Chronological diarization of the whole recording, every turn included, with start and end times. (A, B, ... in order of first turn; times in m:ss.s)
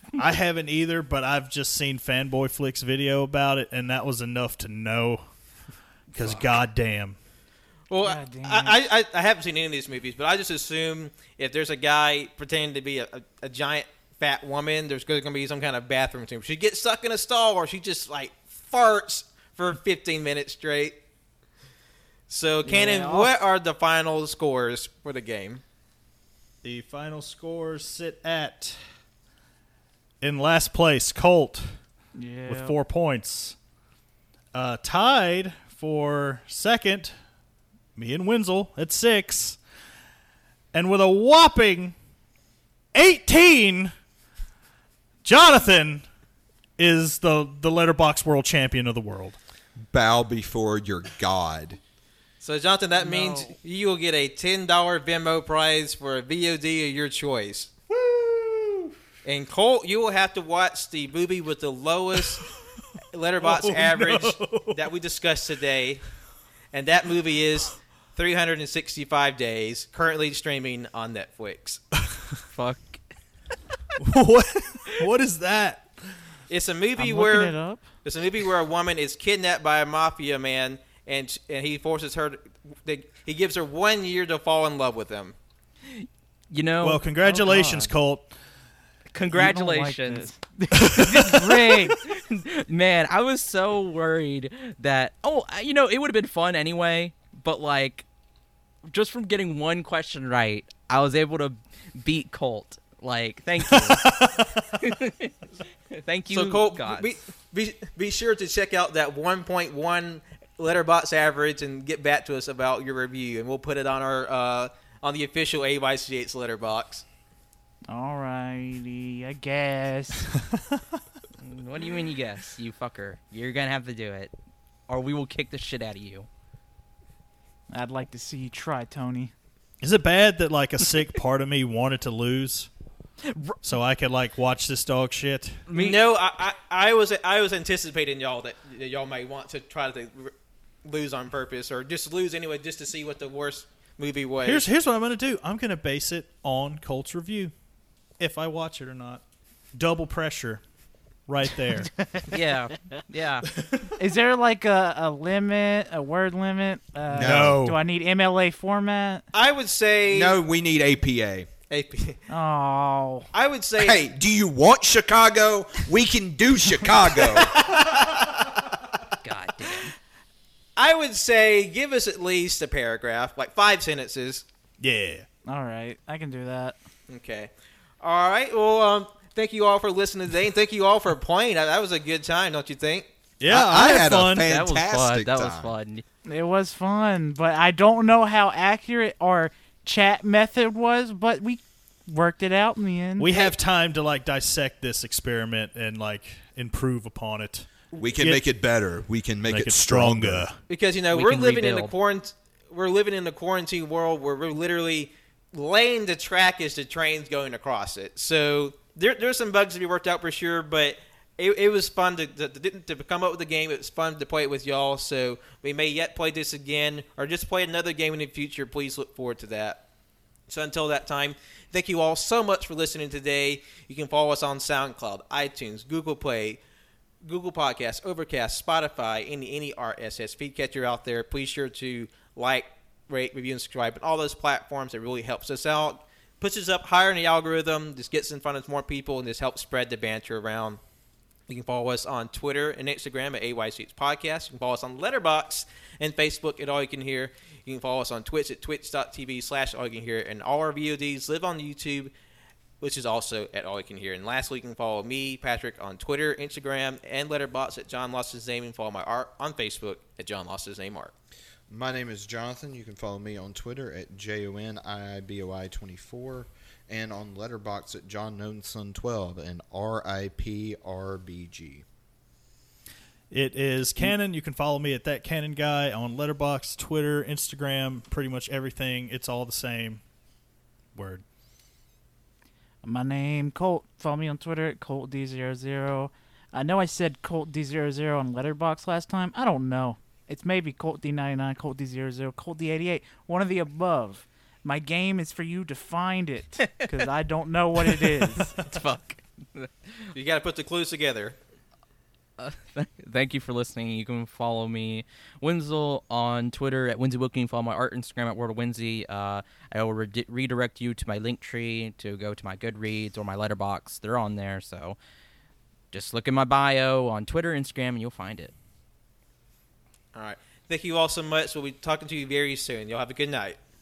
0:00.2-0:05.2 A
0:06.1-0:07.2 A
0:07.9-0:21.0 B
0:08.0-0:08.8 C
0:22.3-0:25.6 B
0:22.6-0:23.4 C
0:26.6-0:28.8 A
0:30.2-0:31.7 A
0:32.2-0:32.8 C
0:32.5-0:33.6 A
0:34.5-0:37.2 A
0:38.0-0:39.6 A
0:40.7-0:42.0 A
0:42.9-0:43.9 A
0:45.2-0:46.0 A
0:46.8-0:49.4 A
0:49.8-0:51.8 D
0:52.4-0:57.7 B
0:53.0-0:53.6 C
0:57.9-0:58.9 A
0:59.2-1:02.5 B
1:03.1-1:06.0 B
1:03.4-1:04.9 A
1:06.7-1:11.8 B
1:12.5-1:13.0 E
1:14.0-1:15.9 A
1:16.5-1:25.4 B
1:17.0-1:17.8 C
1:25.9-1:27.0 E
1:26.8-1:28.3 A
1:27.2-1:27.9 C
1:29.1-1:30.3 E
1:29.3-1:32.0 C
1:30.8-1:31.3 A
1:30.9-1:38.0 E
1:38.8-1:44.1 E
1:43.7-1:44.8 A
1:44.8-1:45.4 E
1:46.0-1:47.1 E
1:46.3-1:57.0 B
1:57.9-2:00.3 C
2:01.4-2:04.3 E
2:04.9-2:06.3 E
2:07.7-2:09.3 C
2:09.8-2:12.7 A
2:13.2-2:13.6 E
2:13.6-2:15.7 A
2:15.7-2:24.7 B
2:24.4-2:27.5 A
2:28.2-2:29.2 A
2:29.7-2:30.6 A
2:31.3-2:31.9 A
2:31.8-2:32.8 C
2:32.3-2:33.5 E
2:33.4-2:34.0 A
2:34.0-2:39.2 C
2:37.1-2:37.8 A
2:37.1-2:37.6 D
2:39.3-2:40.4 B
2:40.1-2:41.5 D
2:41.7-2:42.2 B
2:42.3-2:43.3 C
2:43.3-2:44.0 B
2:43.8-2:47.8 D
2:47.4-2:47.6 C
2:49.2-2:49.9 E
2:50.8-2:54.4 B
2:54.8-2:55.3 A
2:55.4-2:56.8 C
2:57.1-3:03.1 B
3:03.4-3:04.5 A
3:03.5-3:05.7 D
3:04.4-3:06.0 E
3:06.2-3:13.5 C
3:13.2-3:18.4 A
3:18.0-3:20.5 D
3:19.5-3:20.6 A
3:20.7-3:39.8 B
3:21.1-3:21.9 E
3:40.5-3:46.6 B
3:47.2-4:00.8 B
4:01.5-4:12.1 B
4:12.8-4:21.1 B
4:21.7-4:31.8 D
4:33.3-4:40.0 A
4:41.0-4:41.2 A
4:42.8-4:58.6 C
4:58.2-5:00.1 E
5:00.1-5:01.4 B
5:02.4-5:15.0 E
5:15.9-5:18.5 E
5:20.2-5:23.6 B